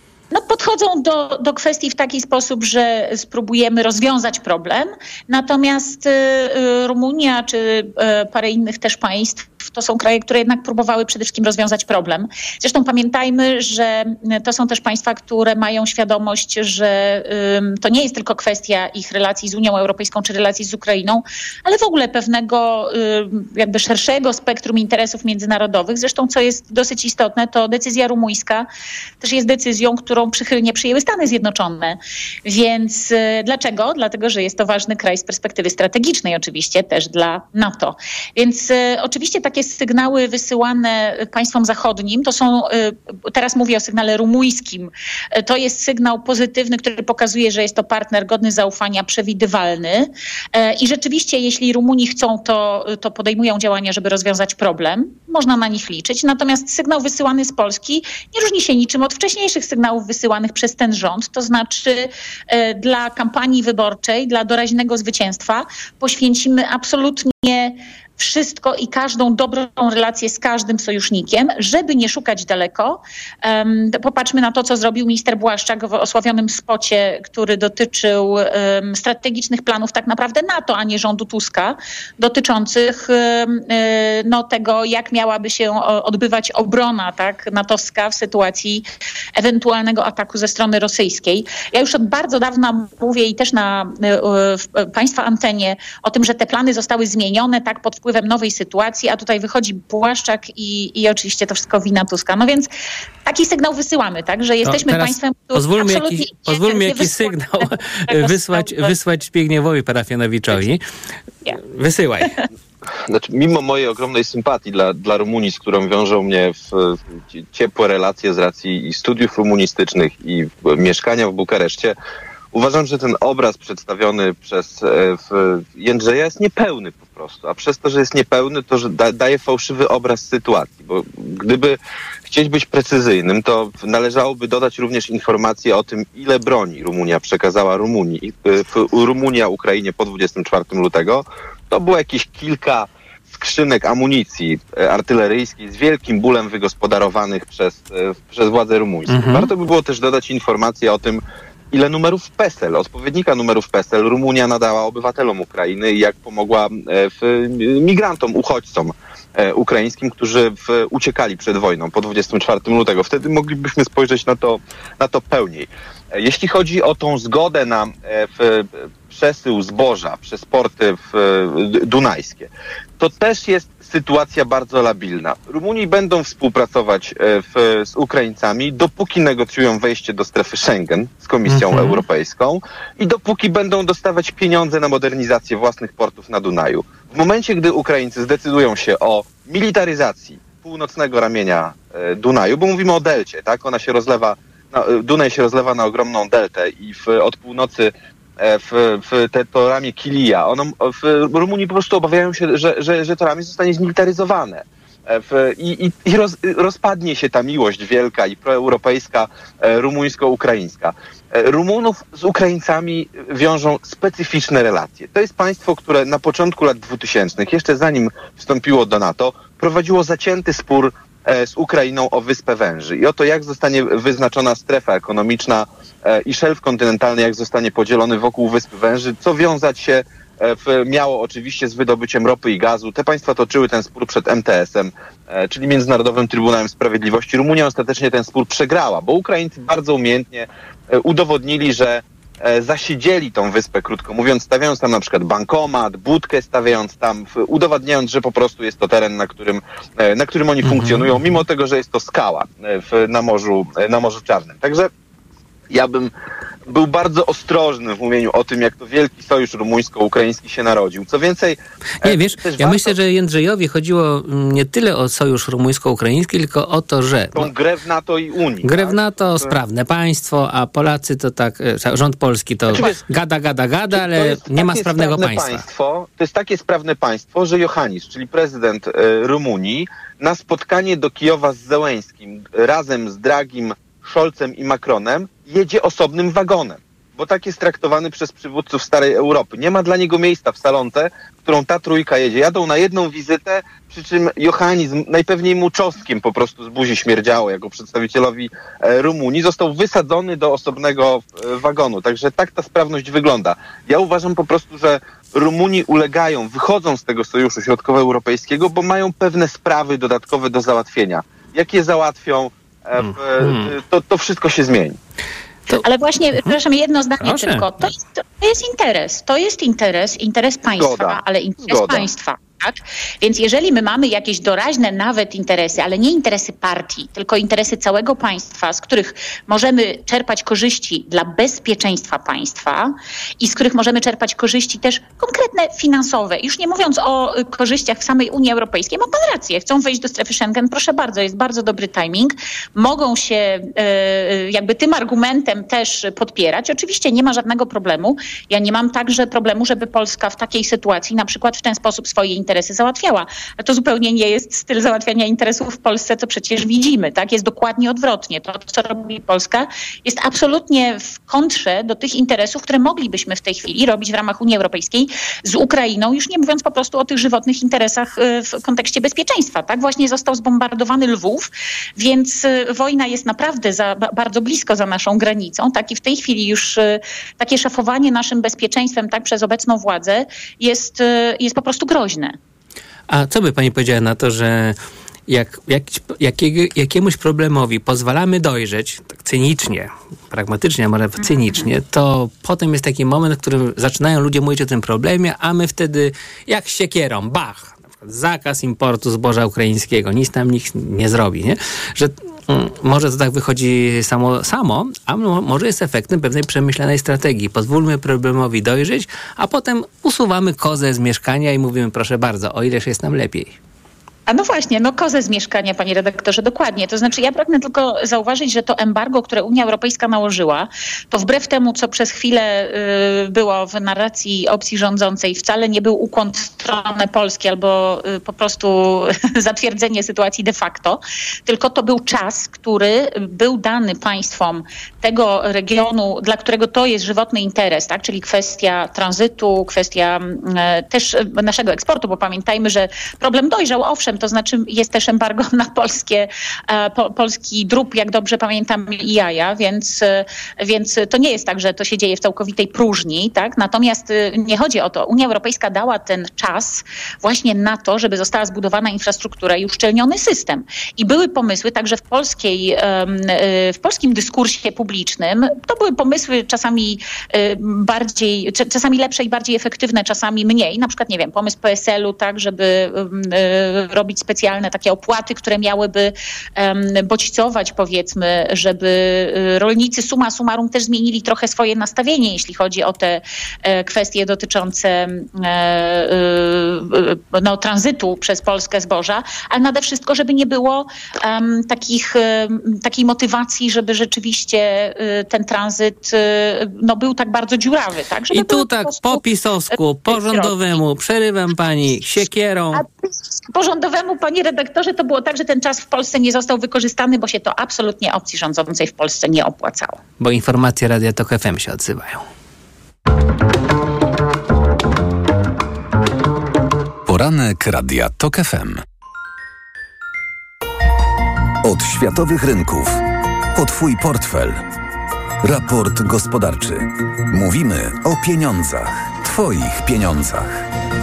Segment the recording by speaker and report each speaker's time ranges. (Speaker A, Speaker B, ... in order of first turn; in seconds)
Speaker A: 0.3-28.7, 29.2-102.7, 103.2-108.9, 315.7-382.4, 391.2-391.7, 414.3-499.2, 500.1-500.8, 502.7-510.0
Speaker B: 104.6-110.8, 111.6-112.3, 149.1-149.5, 181.5-182.0, 250.6-251.3, 262.0-267.5, 268.6-275.6, 313.0-313.7, 317.2-317.6, 383.1-384.8, 385.3-413.6, 498.3-502.8, 510.2-512.2
Speaker C: 113.1-122.0, 122.5-254.9, 255.7-256.1, 256.7-262.9, 267.3-269.5, 272.7-273.0, 273.9-315.0, 320.8-322.1
Speaker D: 517.1-518.8, 521.6-523.0, 523.5-524.6, 525.4-530.6